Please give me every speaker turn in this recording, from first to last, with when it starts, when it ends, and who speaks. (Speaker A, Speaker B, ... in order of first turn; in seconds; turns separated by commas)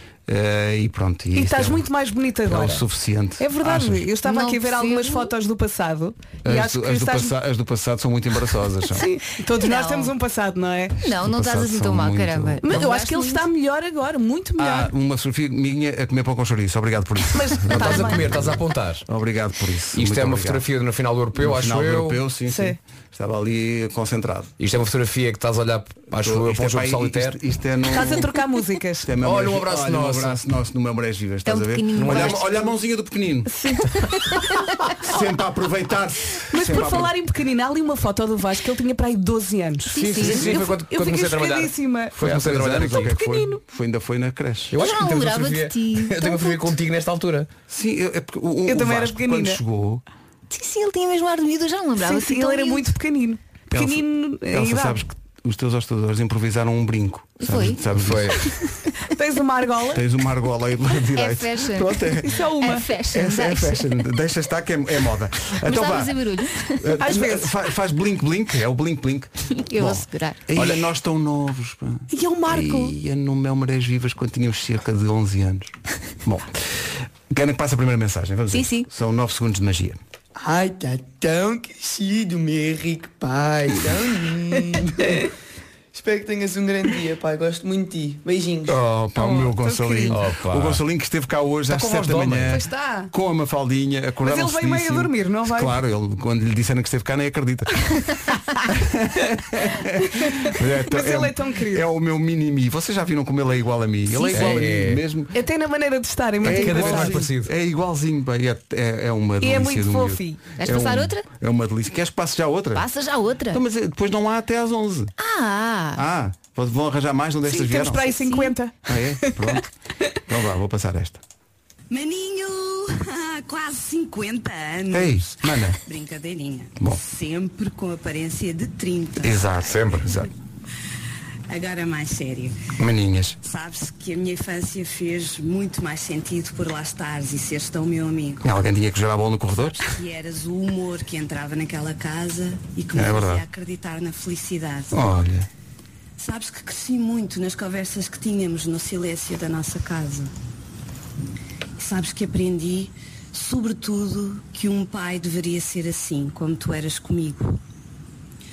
Speaker A: 0.3-1.8, Speaker B: 1.3-2.8, Speaker A: 2.5-4.1, Speaker B: 3.4-7.3, Speaker C: 4.2-5.3, Speaker A: 6.4-9.0, Speaker B: 8.9-11.0, Speaker C: 9.6-10.1, Speaker C: 11.0-13.5, Speaker A: 11.2-12.6, Speaker B: 12.6-14.9, Speaker A: 14.6-20.6, Speaker B: 17.3-18.3, Speaker D: 17.7-19.0, Speaker D: 19.9-22.2, Speaker A: 21.3-24.5, Speaker B: 22.5-22.8, Speaker D: 24.6-27.4, Speaker A: 26.1-28.3, Speaker B: 27.9-29.1, Speaker A: 29.0-33.5, Speaker D: 29.2-30.4, Speaker C: 31.4-32.5, Speaker D: 31.9-32.4, Speaker A: 35.0-37.1, Speaker B: 36.5-42.2, Speaker D: 39.9-43.1, Speaker C: 39.9-40.7, Speaker A: 42.2-44.7, Speaker B: 42.8-43.6, Speaker D: 44.7-47.5, Speaker C: 44.7-46.8, Speaker A: 47.7-50.0, Speaker B: 48.6-49.6, Speaker C: 50.5-52.8, Speaker B: 52.0-55.0, Speaker A: 53.7-58.4, Speaker C: 57.4-57.8, Speaker D: 57.9-58.4, Speaker B: 59.0-60.0, Speaker A: 59.9-62.4, Speaker C: 61.1-64.0, Speaker B: 62.2-62.9, Speaker A: 63.1-66.1, Speaker C: 65.6-66.9, Speaker A: 66.8-75.7, Speaker B: 67.0-67.5, Speaker C: 69.6-70.5, Speaker B: 72.1-72.9, Speaker A: 77.3-80.0, Speaker C: 78.5-78.9, Speaker E: 80.3-85.3, Speaker E: 85.9-88.8, Speaker A: 88.7-97.8, Speaker B: 89.2-90.2, Speaker D: 90.1-90.8, Speaker D: 91.7-92.7, Speaker B: 92.5-93.1, Speaker B: 94.2-95.8, Speaker A: 98.7-105.3, Speaker B: 100.4-101.8, Speaker C: 104.1-104.5, Speaker D: 104.3-105.0, Speaker B: 105.3-107.3, Speaker A: 106.4-112.8, Speaker D: 106.4-107.5, Speaker B: 109.4-110.4, Speaker C: 110.6-111.2, Speaker C: 112.7-113.6, Speaker A: 113.5-115.1, Speaker C: 115.2-116.0, Speaker A: 116.0-118.0, Speaker B: 117.5-119.6, Speaker C: 117.9-118.5, Speaker A: 118.9-119.6, Speaker A: 120.3-121.2, Speaker F: 121.9-125.3, Speaker A: 124.9-125.8, Speaker F: 125.8-129.5, Speaker A: 129.2-130.3, Speaker D: 129.7-130.0, Speaker F: 131.5-132.6, Speaker A: 132.8-133.4, Speaker F: 133.4-138.5, Speaker A: 138.4-139.9, Speaker F: 139.8-145.2, Speaker A: 142.9-143.4, Speaker A: 144.9-145.4, Speaker F: 146.2-150.3, Speaker F: 151.8-157.6